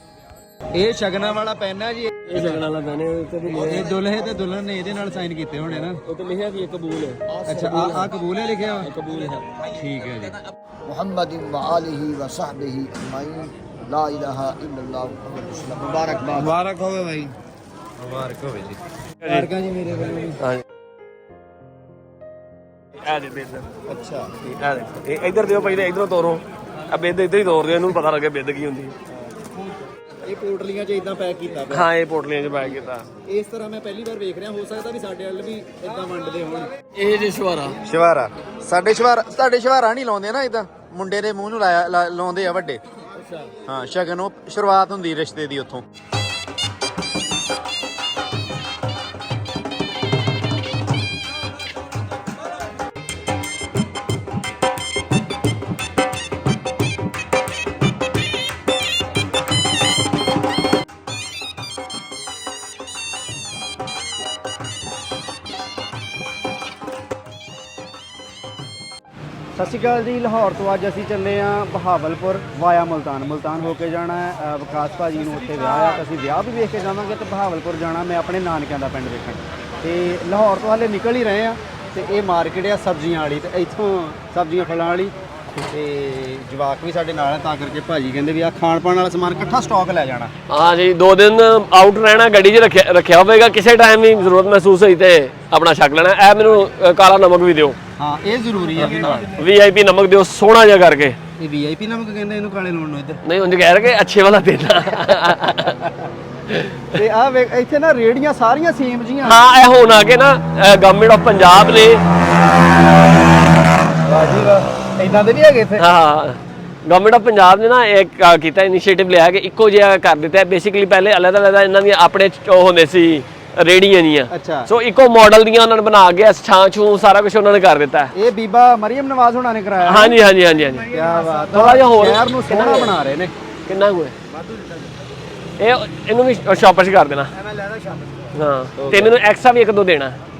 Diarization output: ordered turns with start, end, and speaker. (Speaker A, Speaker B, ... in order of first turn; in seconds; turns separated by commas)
Speaker A: 0.7-2.6, Speaker B: 2.3-3.9, Speaker A: 3.5-6.0, Speaker B: 6.0-8.1, Speaker A: 7.4-8.9, Speaker B: 8.8-9.5, Speaker A: 9.6-10.3, Speaker C: 10.9-16.6, Speaker A: 16.4-17.3, Speaker A: 18.0-20.4, Speaker B: 23.0-23.7, Speaker A: 23.9-24.5, Speaker B: 24.4-28.9, Speaker A: 30.2-31.9, Speaker B: 31.7-33.0, Speaker A: 32.6-36.7, Speaker B: 36.9-37.8, Speaker A: 37.8-42.8, Speaker B: 43.2-43.5, Speaker A: 43.6-45.8, Speaker A: 69.5-85.1, Speaker A: 85.7-90.3, Speaker B: 90.5-97.8, Speaker A: 98.0-99.3, Speaker B: 98.8-101.2, Speaker A: 101.4-103.2, Speaker B: 103.2-105.8, Speaker A: 105.7-106.0, Speaker B: 106.5-107.0, Speaker A: 106.9-109.4, Speaker B: 109.2-112.0, Speaker A: 114.0-115.8, Speaker B: 115.8-128.1, Speaker A: 124.3-124.7, Speaker A: 128.1-130.2, Speaker B: 129.8-132.9, Speaker A: 130.9-133.3, Speaker B: 133.7-134.2, Speaker A: 134.3-134.9, Speaker B: 135.6-137.3, Speaker A: 137.3-138.2, Speaker B: 138.3-140.2, Speaker A: 138.8-139.2